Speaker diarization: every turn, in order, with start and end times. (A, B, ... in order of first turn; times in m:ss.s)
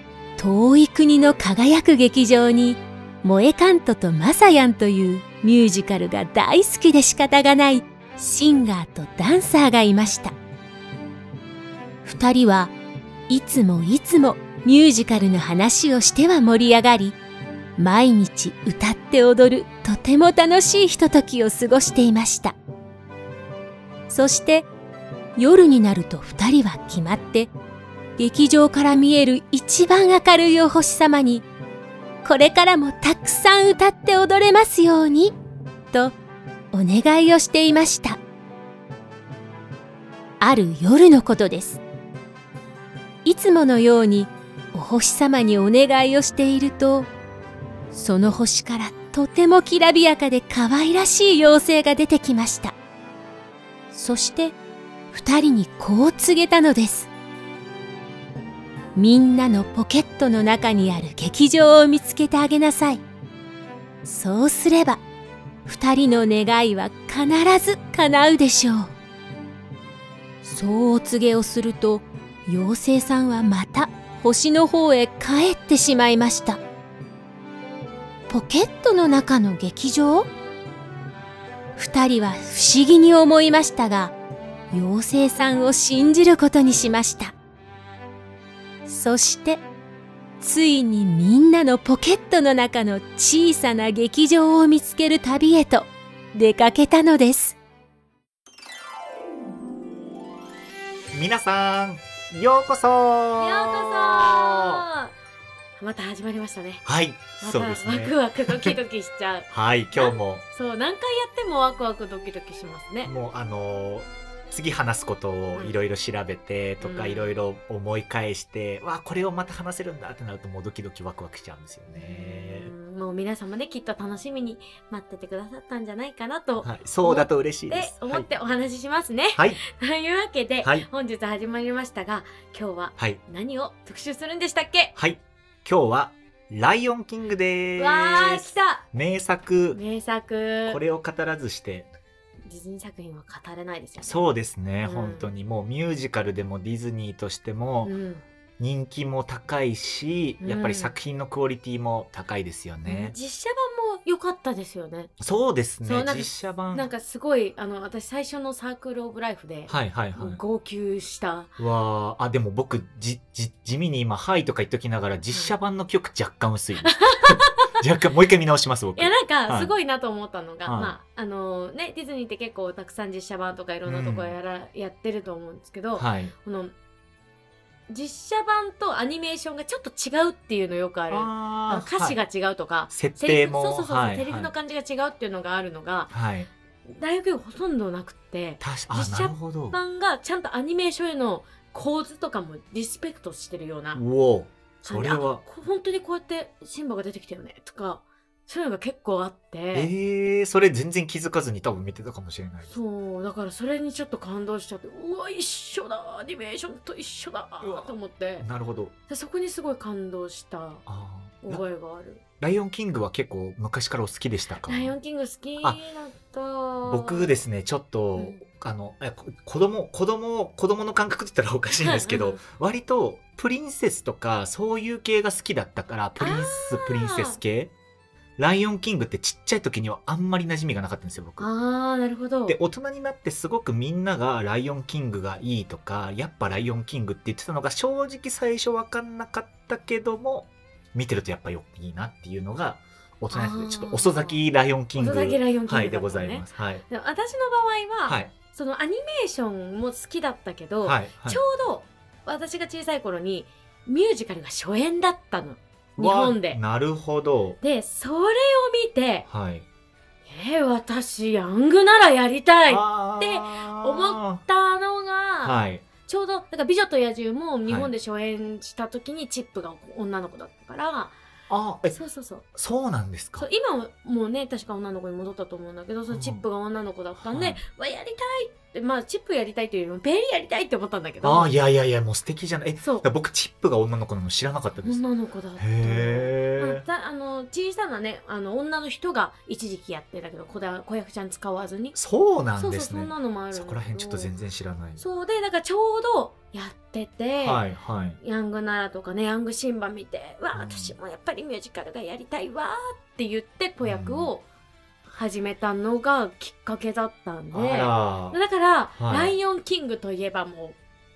0:00.4-0:10.3 A
0:12.0-0:12.7 A
0:13.3-0:17.2 A
0:17.8-0:22.5 A
0:24.1-0:24.7 A
0:25.4-0:27.5 A
0:28.2-0:31.4 A
0:32.2-0:35.4 A
0:36.7-0:38.2 A
0:40.4-0:41.8 A
0:43.2-0:47.1 A
0:47.9-0:52.8 A
0:53.9-0:54.6 A
0:55.1-0:57.1 A
0:59.0-1:03.0 A
1:04.0-1:05.0 A
1:05.7-1:08.9 A
1:10.4-1:16.6 A
1:18.3-1:20.3 A
1:21.8-1:24.1 A
1:24.7-1:27.3 A
1:28.9-1:29.6 A
1:30.4-1:37.6 A
1:41.1-1:44.8 B
1:43.4-1:45.1 C
1:45.8-1:46.8 C
1:46.8-1:48.7 B
1:47.4-1:53.1 C
1:49.5-1:50.4 B
1:53.0-2:02.7 B
1:56.8-1:57.3 C
2:01.9-2:14.9 C
2:06.6-2:08.3 B
2:09.3-2:09.6 B
2:15.0-2:19.8 B
2:17.8-2:18.8 C
2:19.7-2:20.8 C
2:20.7-2:21.9 B
2:22.5-2:24.3 C
2:24.0-2:27.9 B
2:24.8-2:25.3 C
2:27.8-2:28.2 C
2:28.6-2:33.2 B
2:30.4-2:30.9 C
2:32.8-2:35.1 C
2:35.2-2:36.9 B
2:35.8-2:41.5 C
2:39.7-2:40.4 B
2:41.6-2:49.7 B
2:46.8-2:47.8 C
2:49.0-2:56.7 C
2:50.7-2:50.9 B
2:53.9-2:54.3 B
2:56.0-2:56.3 B
2:57.9-3:06.1 C
3:01.1-3:02.2 B
3:02.9-3:04.5 B
3:06.1-3:06.5 B
3:06.9-3:14.0 C
3:08.6-3:09.8 B
3:14.0-3:15.4 B
3:14.8-3:19.9 C
3:19.7-3:22.7 B
3:22.7-3:28.5 C
3:27.6-3:29.0 B
3:29.1-3:30.8 C
3:30.9-3:31.6 B
3:31.4-3:32.2 C
3:32.4-3:34.9 B
3:34.7-3:37.4 C
3:36.8-3:47.7 B
3:38.2-3:38.4 C
3:41.8-3:42.4 C
3:46.2-3:47.4 C
3:48.4-3:51.5 B
3:51.4-3:52.6 C
3:52.5-4:06.8 B
4:03.3-4:04.4 C
4:05.0-4:16.6 C
4:08.1-4:08.3 B
4:10.8-4:11.4 B
4:16.0-4:17.6 B
4:17.6-4:19.3 C
4:19.3-4:19.6 B
4:20.3-4:25.5 C
4:22.7-4:24.4 B
4:25.4-4:25.8 B
4:26.1-4:31.1 C
4:31.5-4:31.9 B
4:31.9-4:32.4 C
4:32.5-4:33.4 B
4:33.4-4:41.5 C
4:36.1-4:36.4 B
4:37.2-4:37.6 B
4:41.2-4:45.0 B
4:44.8-4:52.0 C
4:45.6-4:46.8 B
4:51.9-4:55.0 B
4:52.6-4:54.3 C
4:55.0-4:57.6 C
4:57.4-4:58.2 B
4:58.2-5:04.4 C
5:00.5-5:00.9 B
5:03.8-5:04.3 B
5:05.1-5:10.8 C
5:07.5-5:08.4 B
5:09.0-5:09.4 B